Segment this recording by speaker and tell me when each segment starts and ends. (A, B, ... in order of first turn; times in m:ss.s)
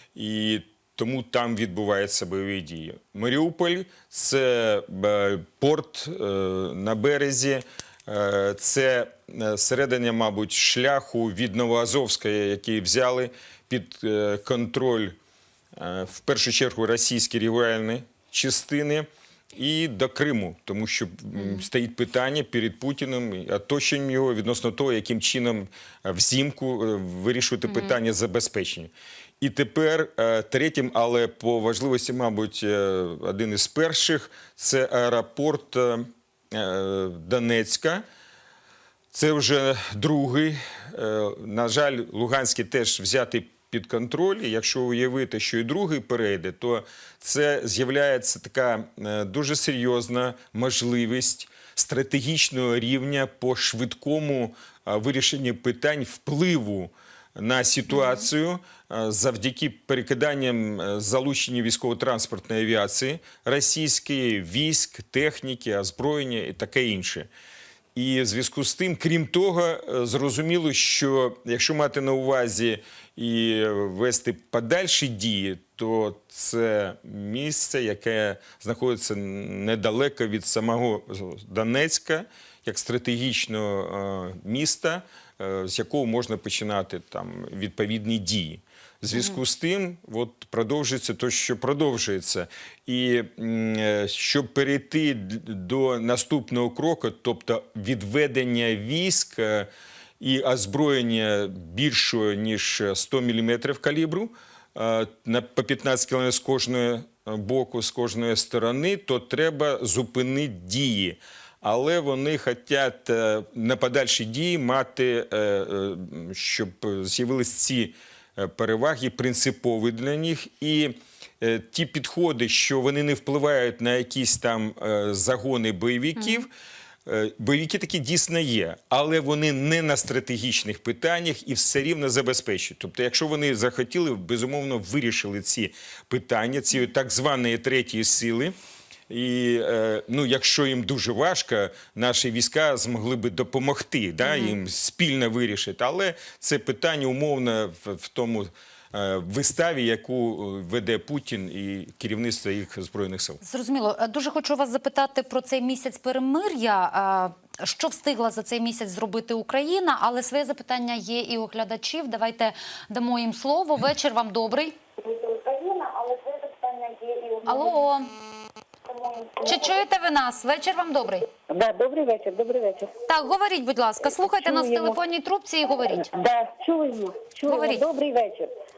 0:00.1-0:15.2 A
0:15.7-0:38.0 A
0:39.1-1:07.3 A
1:07.9-2:06.5 A
2:07.0-2:18.5 A
2:19.1-2:33.4 A
2:33.4-2:44.7 B
2:45.0-2:47.7 C
2:47.4-2:48.1 B
2:48.9-2:49.6 C
2:49.4-2:51.3 B
2:51.5-2:52.9 C
2:53.1-2:56.1 B
2:54.3-2:55.0 C
2:56.0-2:58.5 C
2:57.5-2:57.8 B